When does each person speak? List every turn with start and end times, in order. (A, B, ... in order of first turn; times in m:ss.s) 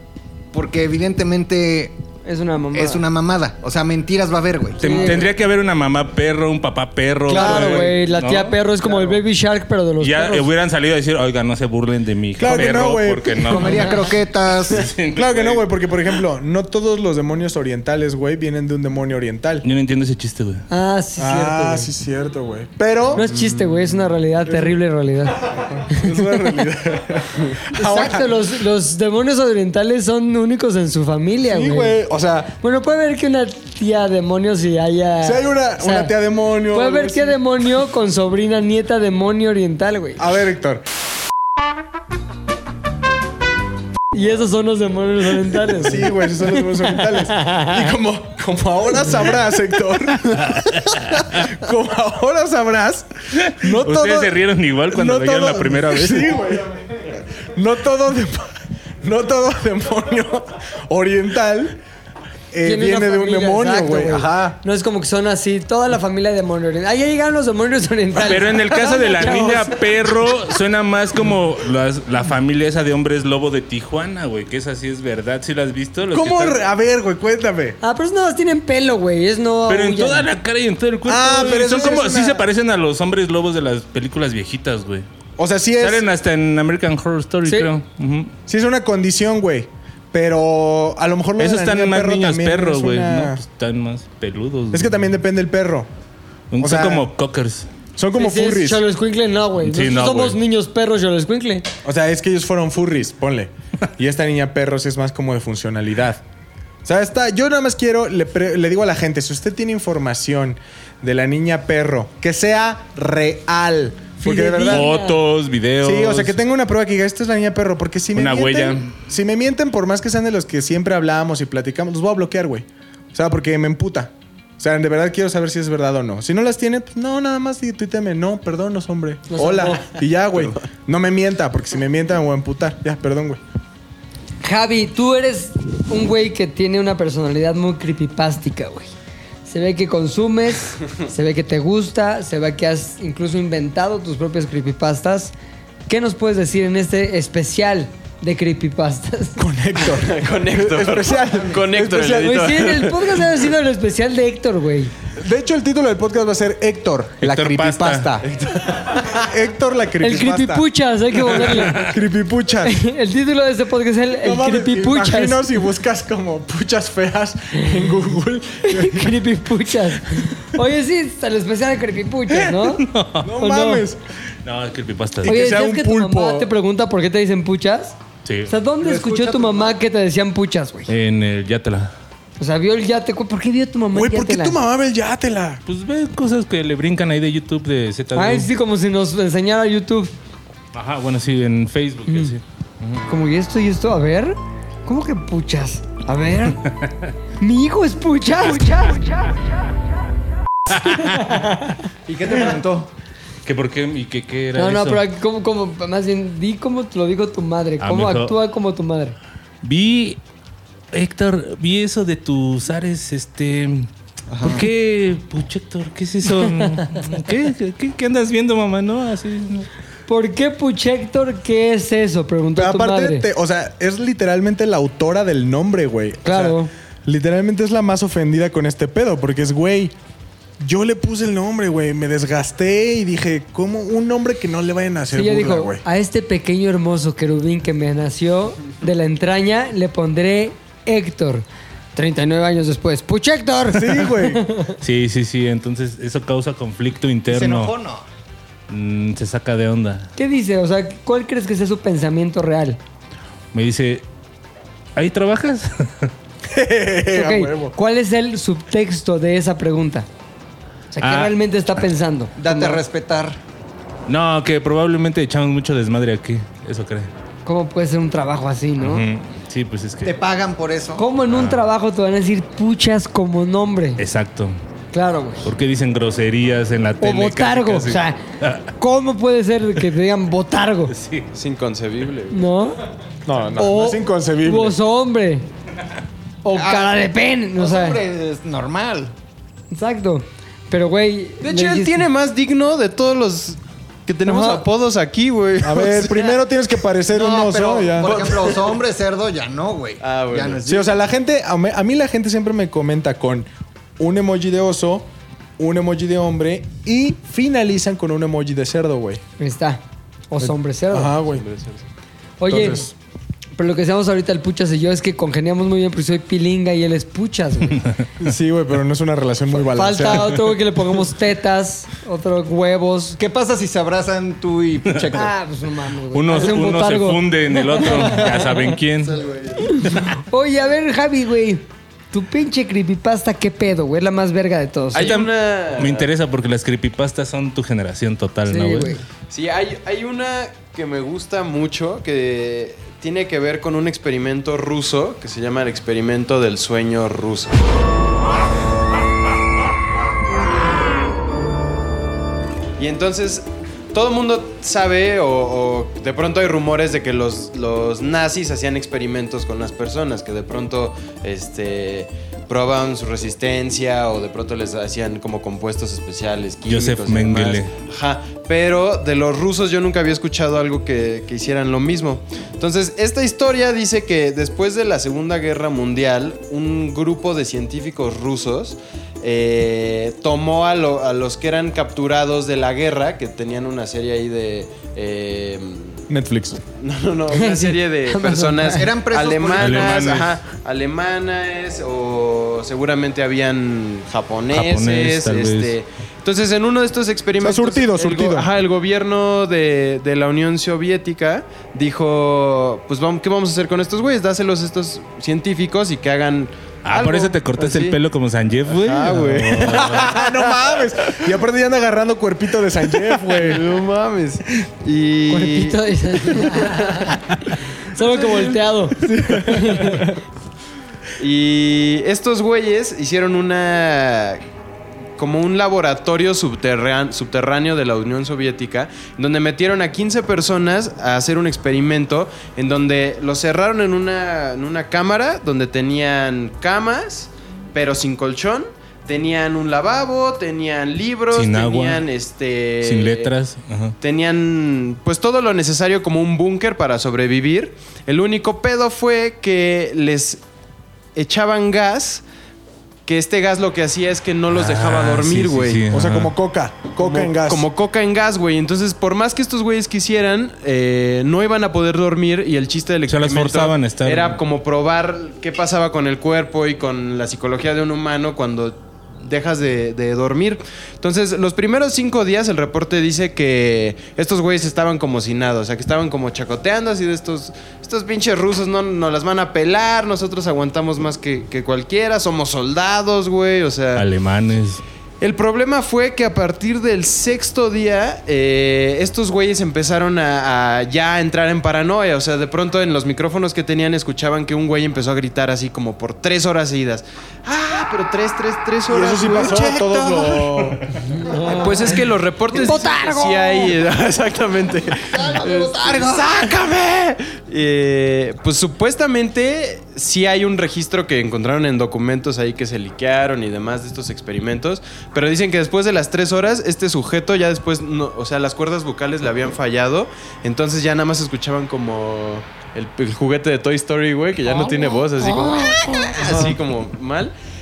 0:00.5-0:02.0 A
0:02.2-0:03.0 B
0:02.7-0:05.2 A
0:04.8-0:08.6 C
0:04.8-0:05.3 B
0:07.3-0:10.5 B
0:07.3-0:07.9 D
0:10.0-0:14.2 C
0:12.4-0:13.8 D
0:13.5-0:14.9 A
0:14.7-0:15.6 C
0:15.1-0:19.7 D
0:19.6-0:20.6 C
0:20.7-0:21.9 B
0:21.2-0:23.3 D
0:23.2-0:26.5 B
0:23.3-0:23.8 E
0:24.5-0:24.8 D
0:25.5-0:28.4 D
0:27.8-0:32.0 B
0:31.4-0:32.6 D
0:32.6-0:36.1 B
0:35.2-0:37.4 D
0:36.7-0:40.2 B
0:40.2-0:40.8 D
0:44.1-0:47.9 B
0:45.7-1:01.8 D
0:50.6-0:51.4 C
0:53.4-0:56.4 C
1:02.5-1:04.6 D
1:02.6-1:09.7 B
1:08.2-1:16.6 C
1:08.8-1:09.7 D
1:16.1-1:17.8 D
1:17.8-1:20.3 B
1:19.7-1:25.1 C
1:21.1-1:22.5 D
1:25.4-1:26.1 D
1:25.8-1:28.3 C
1:28.5-1:33.4 D
1:31.4-1:35.0 C
1:34.7-1:35.9 D
1:36.5-1:37.7 C
1:36.6-1:37.1 D
1:38.0-1:38.8 D
1:38.2-1:41.7 B
1:39.6-1:40.4 C
1:41.8-1:46.2 D
1:46.8-1:54.9 D
1:54.2-1:55.2 B
1:54.7-1:56.4 C
1:55.8-2:13.4 D
1:58.2-1:58.9 C
2:09.3-2:09.9 B
2:14.4-2:18.9 B
2:19.5-2:25.3 B
2:25.9-2:29.4 B
2:29.4-2:32.6 D
2:30.0-2:32.9 E
2:32.2-2:34.9 B
2:35.2-2:38.3 D
2:37.2-2:38.2 C
2:38.2-2:39.2 E
2:38.9-2:40.7 D
2:40.0-2:41.8 B
2:41.3-2:42.8 D
2:42.6-2:45.5 B
2:44.2-2:49.2 D
2:48.6-2:52.9 B
2:52.4-2:53.3 C
2:53.2-2:54.0 D
2:53.4-2:53.9 B
2:54.4-2:55.4 C
2:55.2-2:56.5 D
2:55.2-2:58.0 B
2:58.2-2:58.5 C
2:58.5-3:00.9 B
2:58.8-2:59.7 A
3:00.9-3:01.9 C
3:02.4-3:04.6 B
3:03.9-3:05.6 D
3:05.7-3:08.5 C
3:08.1-3:10.1 B
3:10.7-3:13.0 C
3:12.1-3:12.4 B
3:13.1-3:16.6 B
3:16.7-3:17.1 C
3:17.4-3:19.4 B
3:20.7-3:21.4 C
3:20.8-3:21.8 B
3:22.1-3:22.9 A
3:23.4-3:25.0 C
3:24.6-3:29.2 B
3:27.8-3:28.4 C
3:29.6-3:30.2 C
3:30.9-3:33.9 C
3:34.3-3:34.6 A
3:34.4-3:39.7 C
3:40.1-3:43.3 B
3:42.6-3:50.0 D
3:46.2-3:46.7 B
3:50.6-3:55.8 D
3:55.1-4:04.8 B
4:03.7-4:04.5 D
4:04.8-4:07.7 C
4:07.3-4:08.1 A
4:08.7-4:10.1 C
4:10.2-4:12.8 B
4:13.5-4:14.0 C
4:15.0-4:16.1 C
4:16.4-4:17.8 D
4:17.1-4:20.1 B
4:20.9-4:22.8 B
4:21.0-4:21.3 C
4:22.4-4:23.4 A
4:24.1-4:27.1 C
4:27.4-4:29.0 B
4:28.8-4:30.2 C
4:30.0-4:31.0 A
4:31.0-4:34.0 B
4:31.3-4:31.6 C
4:34.0-4:34.6 C
4:34.9-4:35.5 B
4:35.4-4:38.7 C
4:37.0-4:38.2 B
4:38.8-4:40.9 B
4:40.9-4:41.3 C
4:41.3-4:42.4 E
4:42.3-4:42.8 B
4:43.2-4:44.8 D
4:43.6-4:45.5 B
4:46.4-4:48.0 B
4:46.5-4:47.0 A
4:47.6-4:49.2 A
4:49.7-4:52.0 B
4:51.4-4:56.4 E
4:54.2-4:54.6 B
4:55.6-4:58.2 D
4:57.1-5:00.9 A
4:58.0-4:58.7 E
5:00.0-5:00.7 E
5:00.7-5:03.5 D
5:04.0-5:09.2 D
5:09.4-5:11.2 B
5:10.4-5:11.5 D
5:11.3-5:11.8 E
5:12.4-5:12.9 B
5:12.5-5:12.9 D
5:13.6-5:17.8 B
5:17.7-5:18.1 C
5:18.2-5:20.4 D
5:19.6-5:23.2 B
5:23.2-5:25.3 A
5:24.9-5:25.2 C
5:25.1-5:28.3 B
5:26.1-5:29.2 C
5:29.1-5:29.7 E
5:29.7-5:35.1 B
5:34.9-5:36.1 E
5:35.0-5:38.9 C
5:38.5-5:39.0 B
5:39.3-5:47.6 E
5:52.8-6:26.1 E
6:06.7-6:07.7 C
6:26.1-6:26.6 D
6:26.8-6:48.0 E
6:27.3-6:28.9 B
6:28.8-6:30.2 A
6:29.6-6:30.4 C
6:34.5-6:35.8 C
6:37.4-6:38.5 D
6:46.8-6:50.1 C
6:48.7-6:50.3 E
6:49.7-6:53.6 D
6:53.4-6:55.8 E
6:55.3-6:57.2 B
6:56.4-6:56.9 E
6:57.9-7:00.1 B
6:59.1-6:59.4 D
7:01.2-7:04.4 E
7:05.2-7:23.3 E
7:21.3-7:22.0 C
7:22.8-7:24.0 C
7:24.0-7:30.4 E
7:31.2-7:32.2 E
7:33.1-7:35.8 E
7:34.5-7:36.3 C
7:35.9-7:37.7 D
7:37.0-8:04.1 E
7:43.1-7:44.4 C
8:04.0-8:04.8 C
8:05.2-8:20.7 E
8:18.9-8:20.8 D
8:21.1-8:21.9 B
8:21.3-8:21.6 A
8:21.5-8:47.3 E
8:22.5-8:23.7 B
8:25.1-8:26.5 A
8:45.7-8:46.1 B